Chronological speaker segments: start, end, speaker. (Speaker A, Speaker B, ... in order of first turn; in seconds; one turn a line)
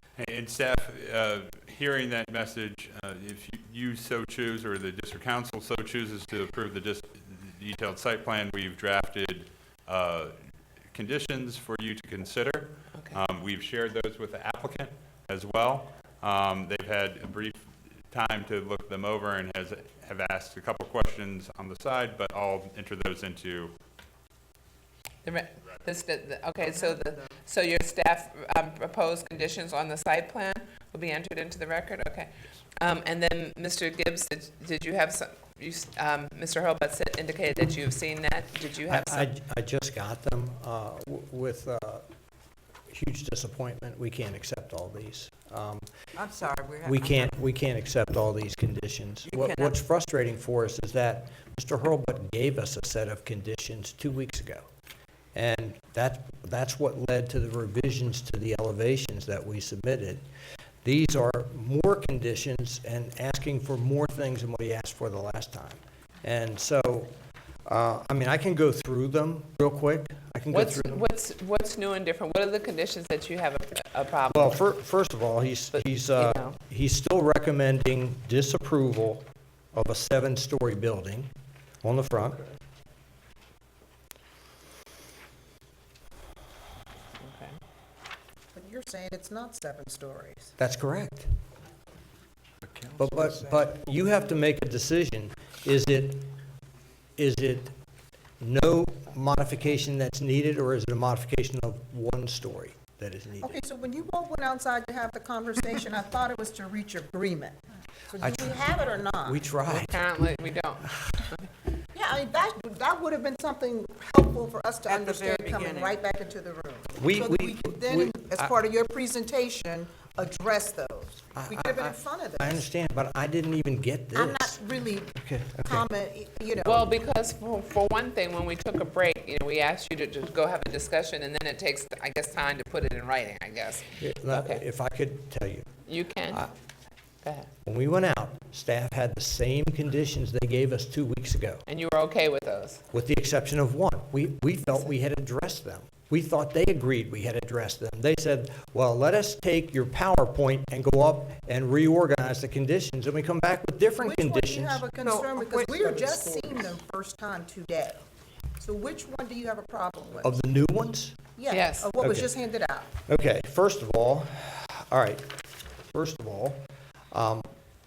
Speaker A: 0.2-10.4
Speaker A: 10.9-23.7
Speaker B: 12.9-13.2
Speaker B: 25.2-39.3
Speaker C: 38.9-42.0
Speaker C: 42.9-45.9
Speaker D: 46.2-47.4
Speaker C: 46.8-54.7
Speaker D: 49.3-49.8
Speaker C: 55.4-60.2
Speaker C: 60.8-67.1
Speaker C: 67.7-71.1
Speaker B: 70.5-74.6
Speaker C: 74.3-81.3
Speaker B: 75.7-76.6
Speaker C: 81.8-82.4
Speaker B: 87.2-87.6
Speaker E: 88.5-90.5
Speaker C: 90.6-91.3
Speaker C: 93.0-96.3
Speaker C: 97.2-97.8
Speaker C: 98.4-103.6
Speaker E: 103.4-107.6
Speaker E: 108.1-109.4
Speaker C: 108.2-110.0
Speaker B: 109.7-111.5
Speaker C: 110.8-111.2
Speaker E: 111.9-122.6
Speaker D: 114.8-116.0
Speaker C: 117.0-118.5
Speaker C: 121.4-124.6
Speaker E: 124.2-127.0
Speaker C: 125.1-125.9
Speaker B: 126.6-134.6
Speaker C: 134.0-135.7
Speaker B: 135.9-136.5
Speaker B: 137.2-137.5
Speaker C: 137.7-141.6
Speaker B: 141.7-142.8
Speaker C: 142.9-154.9
Speaker E: 154.0-158.0
Speaker D: 155.0-156.8
Speaker E: 158.6-160.4
Speaker C: 160.2-161.2
Speaker E: 161.4-162.9
Speaker B: 161.5-161.9
Speaker C: 162.0-162.3
Speaker C: 163.0-165.4
Speaker C: 165.9-167.5